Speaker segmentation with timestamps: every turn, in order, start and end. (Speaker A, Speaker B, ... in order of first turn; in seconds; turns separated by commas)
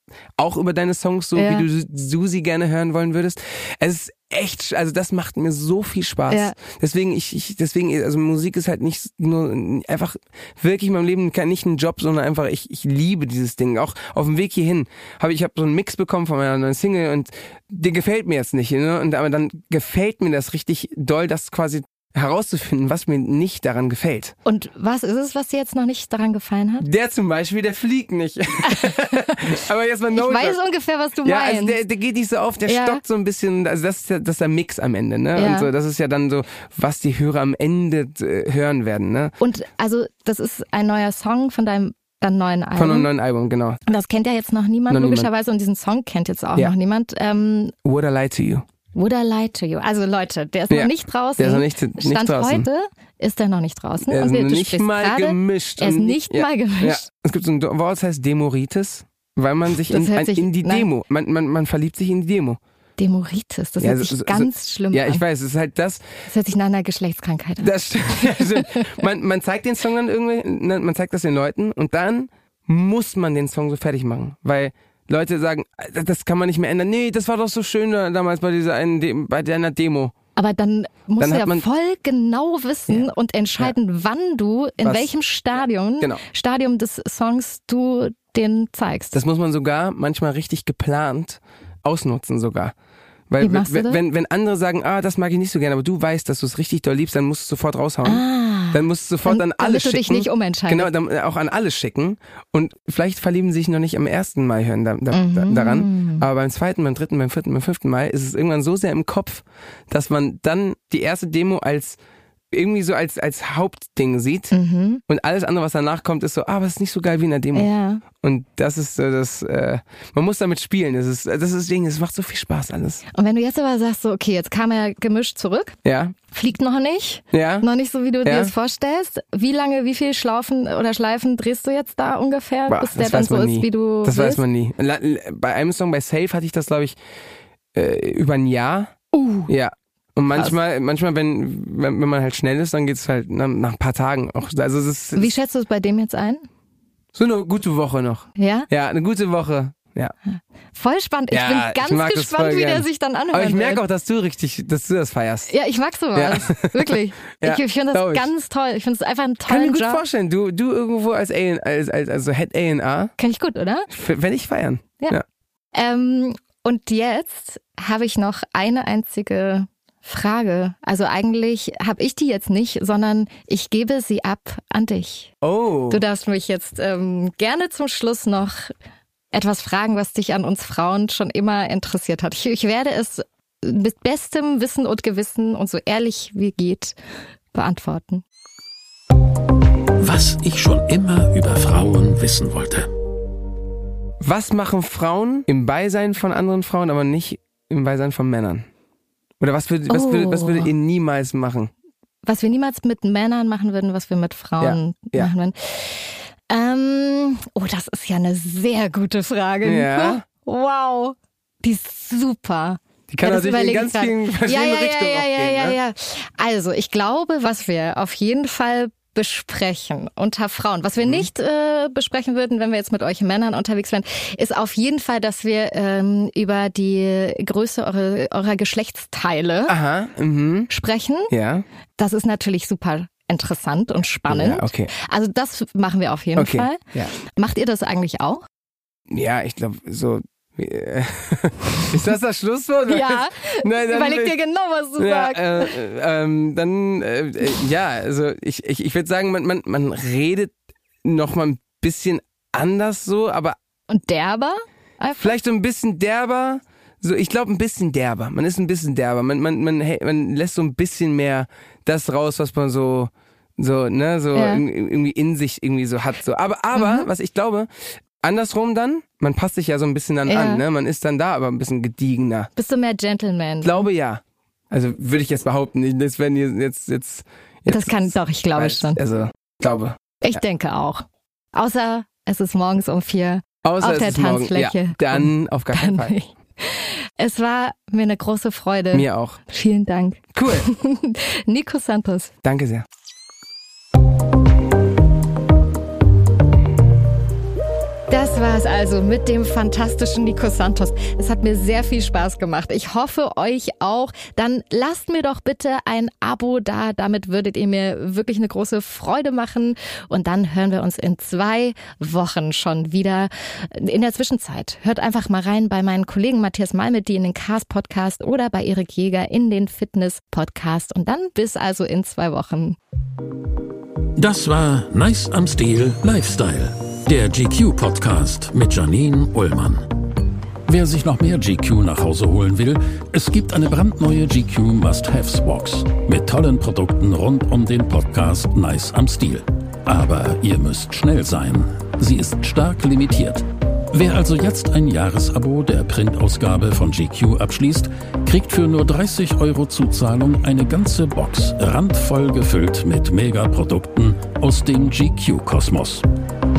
Speaker A: 0.4-24.4, Speaker B: 1.4-1.7, Speaker B: 6.3-6.6, Speaker B: 24.4-26.9, Speaker A: 26.8-30.6, Speaker B: 28.7-29.3, Speaker B: 30.1-31.8, Speaker A: 31.2-39.3, Speaker B: 32.6-33.0, Speaker B: 35.4-35.7, Speaker B: 39.4-43.1, Speaker A: 42.8-43.8, Speaker B: 43.9-47.8, Speaker A: 44.9-45.3, Speaker A: 47.8-48.6, Speaker B: 48.9-57.0, Speaker A: 50.7-52.7, Speaker A: 54.1-62.6, Speaker B: 59.9-60.9, Speaker B: 63.0-65.2, Speaker A: 63.8-66.0, Speaker B: 66.3-68.9, Speaker A: 67.6-80.1, Speaker B: 80.4-89.2, Speaker A: 81.2-81.7, Speaker A: 84.8-85.1, Speaker A: 89.1-92.7, Speaker A: 93.3-112.0, Speaker B: 93.4-94.0, Speaker B: 98.0-100.9, Speaker B: 105.1-106.3, Speaker A: 112.5-114.5, Speaker B: 114.5-115.0, Speaker A: 115.1-123.0, Speaker B: 117.5-118.0, Speaker B: 123.1-125.8, Speaker A: 125.8-126.2, Speaker B: 126.3-134.4, Speaker A: 127.3-127.7, Speaker A: 128.2-128.5, Speaker A: 132.7-137.0, Speaker A: 137.7-138.9, Speaker B: 139.1-139.5, Speaker A: 139.5-145.3, Speaker B: 145.2-146.4, Speaker A: 147.1-150.1, Speaker B: 148.4-148.7, Speaker B: 150.3-153.8, Speaker A: 151.3-155.5, Speaker B: 155.5-160.0, Speaker A: 156.2-158.3, Speaker A: 159.5-163.1, Speaker B: 163.2-163.9, Speaker A: 163.9-165.2, Speaker B: 165.7-175.3, Speaker A: 175.4-176.0, Speaker B: 175.9-178.7, Speaker B: 179.3-187.0, Speaker B: 187.5-188.2, Speaker C: 190.0-192.9, Speaker A: 194.2-198.7, Speaker A: 199.4-201.7, Speaker B: 199.9-200.7, Speaker B: 202.2-229.8, Speaker A: 204.6-205.3, Speaker A: 209.6-210.2, Speaker A: 213.1-215.8, Speaker A: 229.7-230.7, Speaker B: 230.7-231.3, Speaker A: 231.3-231.6, Speaker B: 232.0-238.4, Speaker A: 234.3-234.9, Speaker A: 236.4-237.1, Speaker A: 239.1-244.4, Speaker B: 242.9-245.7, Speaker A: 245.0-253.6, Speaker B: 253.9-255.3, Speaker A: 255.2-267.7, Speaker B: 264.4-264.6, Speaker B: 266.7-267.1, Speaker A: 268.2-272.5, Speaker B: 270.3-270.6, Speaker B: 272.6-273.9, Speaker A: 273.6-280.0, Speaker B: 277.7-279.0, Speaker B: 280.2-292.3, Speaker A: 283.6-286.1, Speaker A: 288.9-289.4, Speaker A: 290.3-290.7, Speaker A: 292.4-292.9, Speaker B: 298.1-322.8, Speaker C: 324.2-329.9, Speaker C: 330.7-356.1